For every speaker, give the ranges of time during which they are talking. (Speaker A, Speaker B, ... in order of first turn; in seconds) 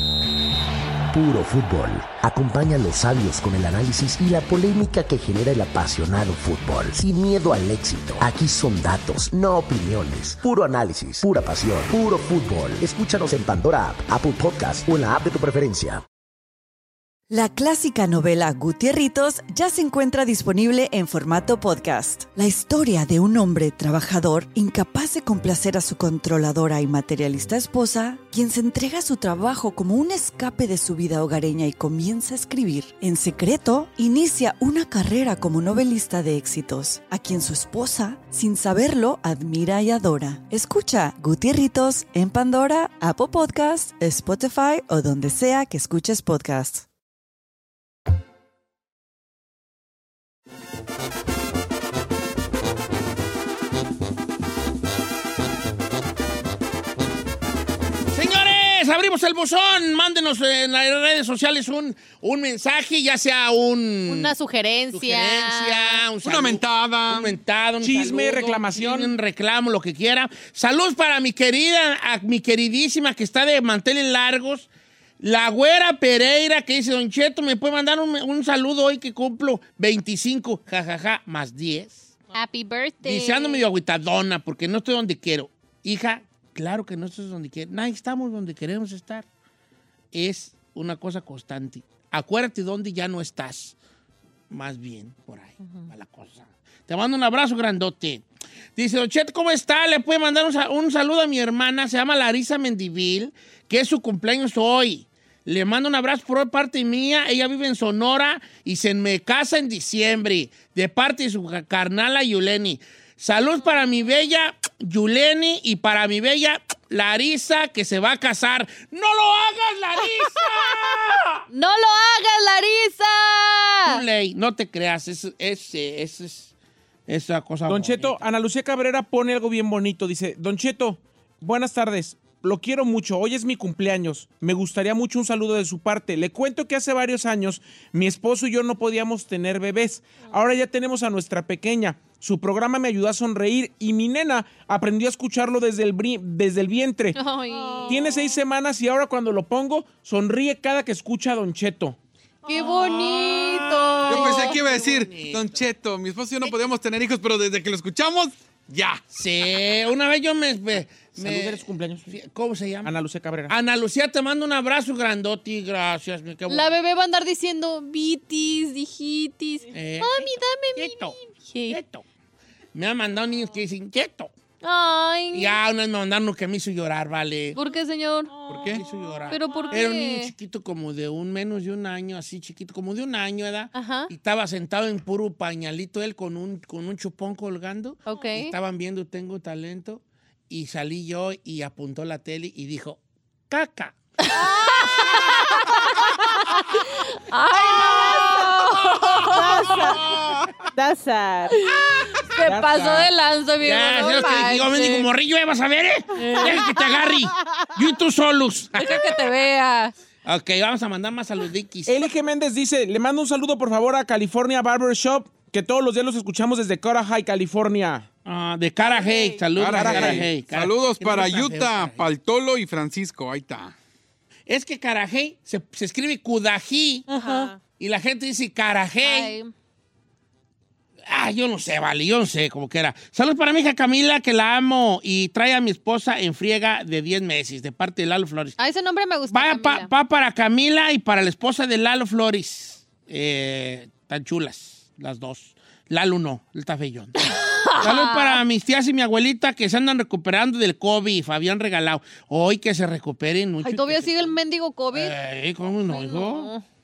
Speaker A: 1.1-16.0
Speaker B: 17.3-46.9
Speaker C: 58.1-64.3, 64.9-74.7, 75.2-82.1, 83.0-89.3, 90.1-93.8, 94.5-98.2, 98.8-121.5, 123.9-126.5, 127.1-128.2, 154.1-155.6, 159.1-162.9, 163.5-166.7, 169.7-171.2, 171.7-172.0, 172.7-174.3, 175.3-177.6, 178.7-194.0, 203.6-209.3, 210.2-212.0, 218.2-222.1, 224.5-227.1, 227.8-229.3, 231.1-238.6, 239.3-247.2, 247.8-254.4, 254.9-256.5
Speaker D: 64.1-66.0, 82.3-83.7, 121.5-124.0, 147.2-148.1, 152.5-154.6, 166.5-171.8, 174.6-175.6, 177.6-178.3, 179.3-180.3, 183.8-184.1, 188.1-188.6, 194.2-196.0, 196.7-199.9, 201.6-205.1, 206.2-206.7, 208.8-209.9, 227.1-227.5, 229.0-229.5, 238.6-239.9, 247.3-248.4, 253.6-255.2, 255.9-256.6
Speaker E: 66.2-67.3, 154.1-159.0, 178.5-178.8, 219.6-223.7
Speaker F: 67.8-69.1, 127.7-147.2, 147.9-152.0, 161.2-162.1, 162.8-163.6, 202.5-203.1, 211.9-218.1, 219.7-220.3
Speaker G: 147.5-148.4, 152.4-154.5, 178.3-179.9, 194.3-195.2, 197.7-201.7, 206.2-207.7, 218.8-219.6, 227.1-227.6